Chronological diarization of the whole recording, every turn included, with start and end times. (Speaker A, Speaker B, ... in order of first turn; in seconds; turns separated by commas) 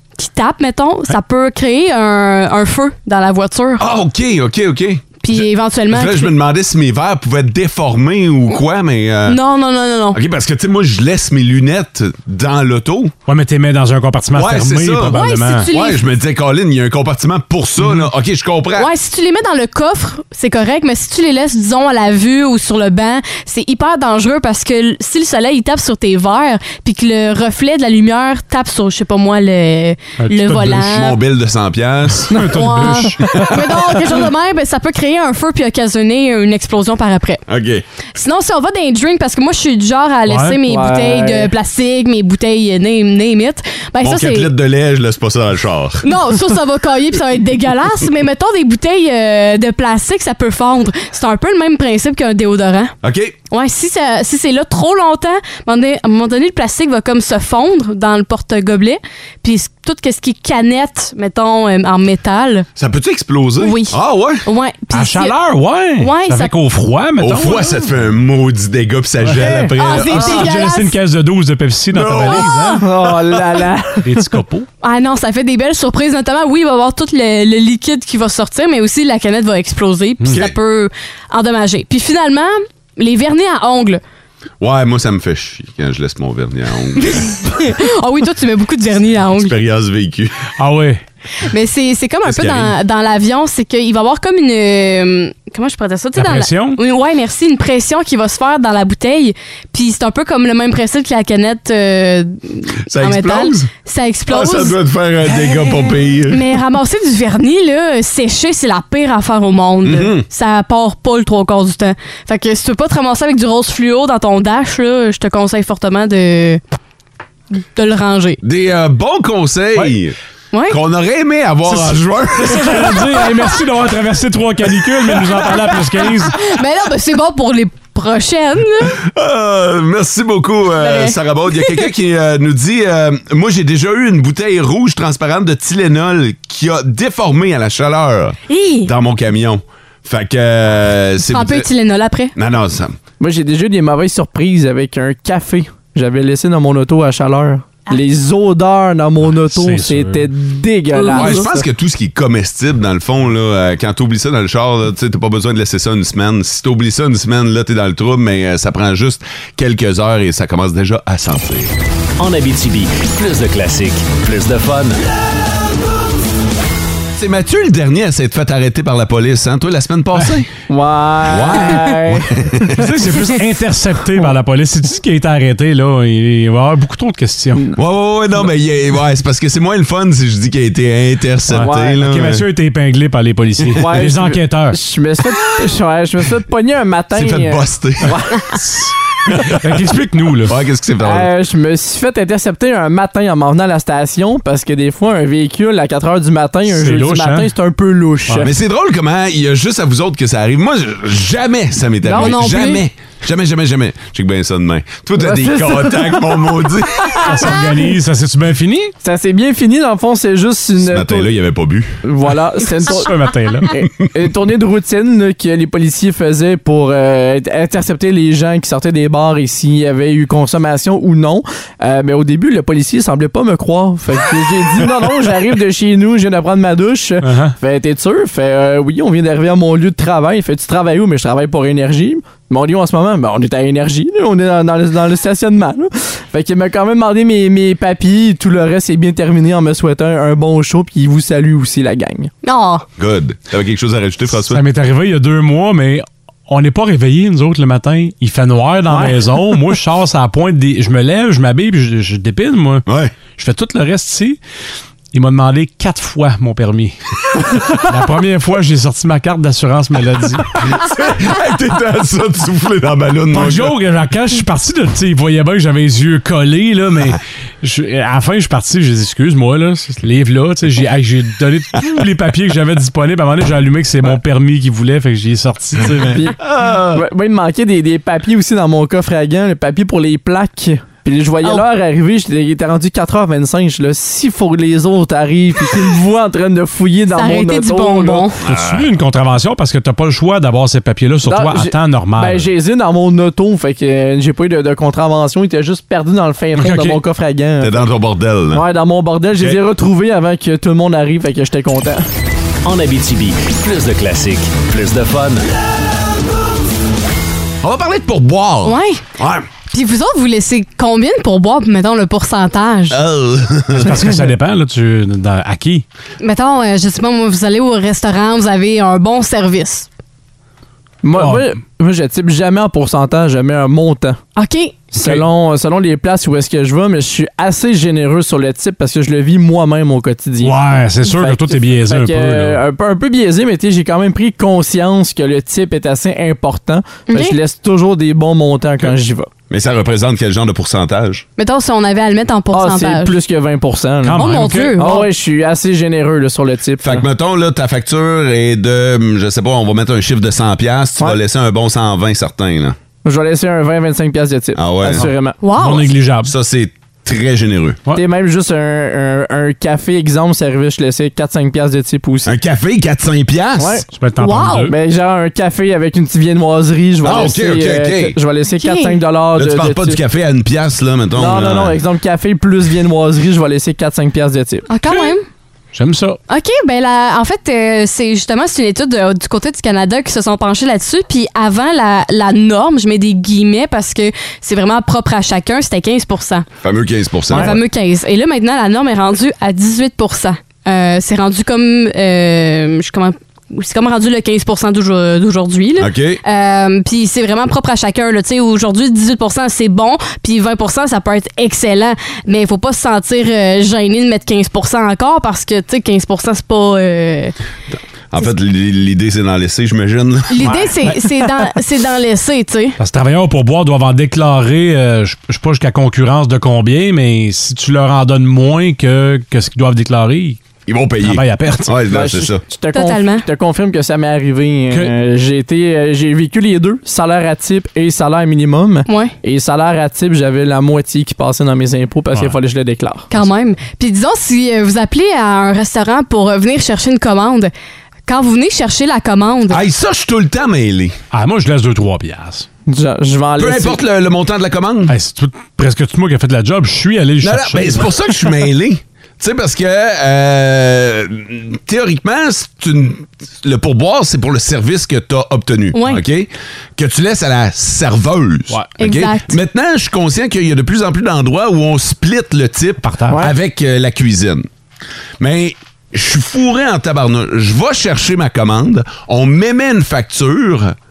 Speaker A: 0.2-3.9, Speaker B: 3.8-9.4, Speaker A: 5.2-6.3, Speaker A: 9.3-10.2, Speaker B: 10.1-13.1, Speaker C: 13.3-15.7, Speaker B: 14.3-18.9, Speaker A: 15.1-16.0, Speaker A: 18.8-31.2, Speaker C: 30.2-30.7, Speaker B: 30.6-32.4, Speaker C: 32.3-33.5, Speaker D: 32.4-32.8, Speaker A: 32.5-37.4, Speaker B: 33.3-33.8, Speaker B: 37.5-37.9, Speaker A: 38.1-44.5, Speaker C: 40.3-40.6, Speaker D: 40.6-41.5, Speaker B: 44.0-46.1, Speaker A: 46.0-53.0, Speaker B: 53.0-53.4, Speaker A: 53.5-62.7, Speaker B: 62.8-64.5, Speaker A: 63.6-65.4, Speaker C: 64.9-67.8, Speaker A: 66.0-66.5, Speaker B: 67.2-70.6, Speaker D: 69.3-69.7, Speaker A: 69.8-71.0, Speaker C: 70.0-72.8, Speaker B: 71.9-72.6, Speaker D: 72.8-74.2, Speaker B: 73.1-73.6, Speaker C: 74.0-74.7, Speaker A: 74.8-84.0, Speaker B: 84.6-87.5, Speaker A: 87.0-89.5, Speaker B: 89.2-90.4, Speaker C: 90.6-91.0, Speaker A: 91.5-104.8, Speaker B: 92.2-92.8, Speaker C: 96.2-96.8, Speaker B: 102.9-103.7, Speaker B: 104.3-106.4, Speaker A: 106.3-116.6, Speaker B: 109.8-110.2, Speaker A: 117.7-118.4, Speaker B: 118.4-120.2, Speaker A: 120.5-120.8, Speaker B: 120.7-123.3, Speaker C: 121.7-126.4, Speaker A: 126.3-128.9, Speaker B: 129.0-141.7, Speaker A: 130.8-131.8, Speaker A: 138.5-138.9, Speaker A: 141.3-142.3, Speaker B: 142.4-143.0, Speaker D: 143.2-151.7, Speaker C: 149.2-150.3, Speaker B: 151.1-161.8, Speaker E: 162.2-165.0, Speaker B: 167.2-170.5, Speaker D: 170.7-172.7, Speaker B: 171.2-172.8, Speaker C: 172.8-177.7, Speaker B: 177.8-182.4, Speaker C: 181.5-184.8, Speaker D: 181.6-182.0, Speaker D: 183.8-188.4, Speaker B: 187.1-188.2, Speaker C: 188.6-188.9, Speaker B: 189.3-189.6, Speaker C: 189.5-190.6, Speaker B: 190.4-191.3, Speaker D: 191.0-198.5, Speaker C: 196.7-197.5, Speaker B: 198.4-207.5, Speaker A: 202.1-202.8, Speaker D: 205.2-206.5, Speaker C: 207.2-208.9, Speaker D: 209.0-211.3, Speaker B: 210.8-212.0, Speaker D: 212.0-242.3, Speaker C: 212.9-213.7, Speaker C: 227.2-227.6, Speaker A: 242.4-242.8, Speaker B: 243.0-244.6, Speaker C: 244.5-254.4, Speaker D: 248.9-249.2, Speaker B: 252.9-253.2, Speaker C: 255.1-260.6, Speaker B: 260.7-263.8, Speaker C: 263.3-276.3, Speaker D: 276.1-276.4, Speaker B: 276.4-277.0, Speaker D: 276.9-288.3, Speaker A: 287.1-288.4, Speaker B: 288.4-288.9, Speaker C: 288.4-292.5, Speaker D: 291.2-297.8, Speaker C: 296.6-297.0, Speaker B: 297.6-298.7, Speaker D: 298.5-302.1, Speaker B: 299.4-299.6, Speaker E: 302.6-305.5, Speaker B: 307.6-309.5, Speaker A: 308.6-309.0, Speaker A: 309.7-313.0, Speaker B: 312.9-314.0, Speaker C: 313.7-315.9, Speaker A: 316.2-319.9, Speaker D: 321.0-324.2, Speaker C: 321.1-321.5, Speaker A: 324.4-324.8, Speaker D: 324.9-339.3, Speaker C: 325.0-325.2, Speaker C: 330.4-332.6, Speaker A: 337.1-337.4, Speaker B: 339.5-341.2, Speaker A: 341.4-343.1, Speaker D: 342.5-344.2, Speaker C: 344.0-344.8, Speaker A: 344.2-345.1, Speaker D: 344.8-347.1, Speaker B: 346.8-352.8, Speaker D: 353.0-355.4, Speaker B: 354.6-355.1, Speaker C: 355.0-356.3, Speaker A: 355.4-355.9, Speaker B: 356.2-357.8, Speaker D: 357.9-362.3, Speaker B: 362.3-363.8, Speaker D: 363.6-363.9, Speaker C: 363.9-364.8, Speaker A: 364.2-364.7, Speaker D: 364.7-370.0, Speaker B: 367.0-368.2, Speaker A: 368.6-369.0, Speaker B: 369.4-371.8, Speaker D: 371.2-374.7, Speaker A: 374.7-375.2, Speaker C: 374.9-375.1, Speaker C: 375.7-376.2, Speaker A: 376.3-386.5, Speaker B: 386.6-387.6, Speaker A: 387.3-407.4, Speaker B: 395.8-396.2, Speaker B: 408.1-410.7, Speaker A: 410.3-412.8, Speaker C: 412.8-420.4, Speaker B: 420.7-422.4, Speaker C: 421.0-421.8, Speaker D: 421.9-433.1, Speaker A: 422.7-423.3, Speaker C: 424.7-424.9, Speaker A: 428.9-429.1, Speaker A: 433.1-437.5, Speaker A: 438.1-439.6, Speaker B: 439.5-441.0, Speaker C: 441.1-442.5, Speaker D: 442.7-443.8, Speaker B: 443.4-444.9, Speaker C: 444.9-447.9, Speaker B: 447.2-464.5, Speaker A: 455.7-456.0, Speaker A: 458.8-459.4, Speaker C: 462.8-463.2, Speaker B: 465.2-470.8